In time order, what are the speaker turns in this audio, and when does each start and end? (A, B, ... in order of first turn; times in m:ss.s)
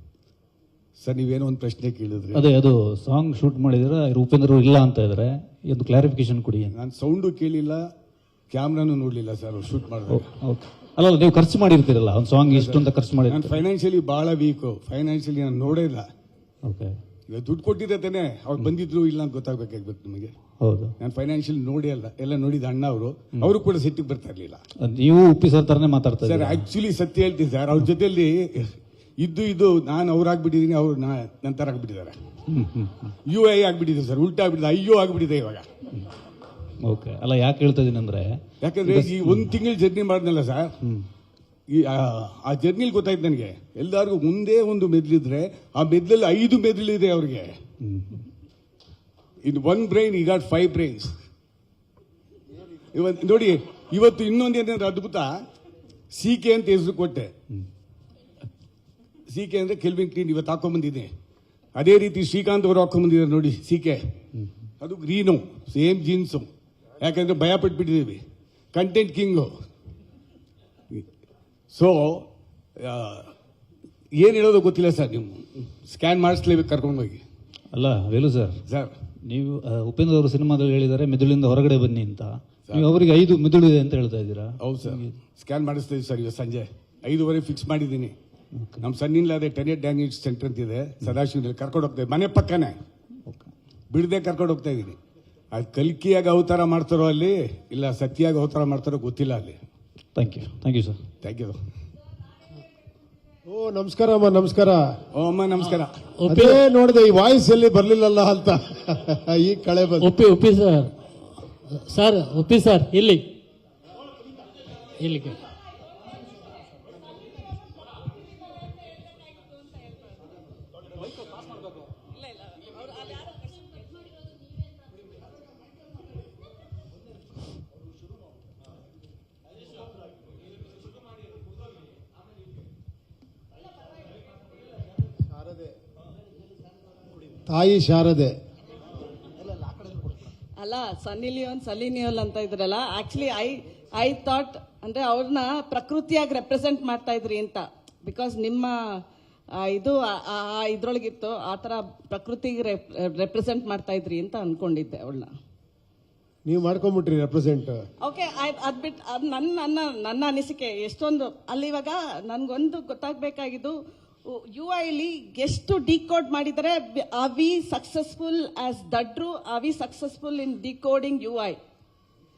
0:01.0-0:02.4 A
0:02.3-0:06.7 B
0:06.7-0:07.9 A
0:08.5-0:10.3 A
0:10.1-0:13.6 B
0:12.5-0:16.1 A
0:16.6-0:17.0 B
0:17.3-0:20.4 A
0:20.6-0:21.0 B
0:21.0-0:24.6 A
0:24.8-0:26.7 B
0:26.2-0:32.2 A
0:32.5-0:33.1 B
0:33.3-0:35.7 A
0:36.8-0:39.6 B
0:38.6-0:40.7 A
0:41.7-0:47.6 A
0:47.8-0:48.2 B
0:49.4-0:51.1 A
0:52.9-0:55.4 A
0:56.1-0:57.3 A
0:59.3-1:01.1 A
1:01.8-1:04.2 A
1:04.8-1:06.5 A
1:07.0-1:08.2 A
1:08.7-1:09.5 A
1:11.7-1:12.3 A
1:12.8-1:13.3 A
1:14.2-1:17.2 A
1:17.7-1:18.6 B
1:18.7-1:18.9 A
1:19.2-1:25.2 B
1:24.6-1:28.1 A
1:28.8-1:32.8 A
1:33.9-1:35.0 A
1:35.5-1:39.6 A
1:40.2-1:41.0 B
1:41.2-1:41.6 A
1:43.5-1:45.0 C
1:45.1-1:46.0 A
1:46.2-1:46.6 D
1:46.3-1:50.1 C
1:50.0-1:50.9 D
1:51.9-1:53.2 D
1:55.0-1:55.4 D
2:15.3-2:15.7 C
2:17.5-2:18.3 C
2:20.6-2:35.3 E
2:36.5-2:37.8 C
2:38.0-2:51.6 E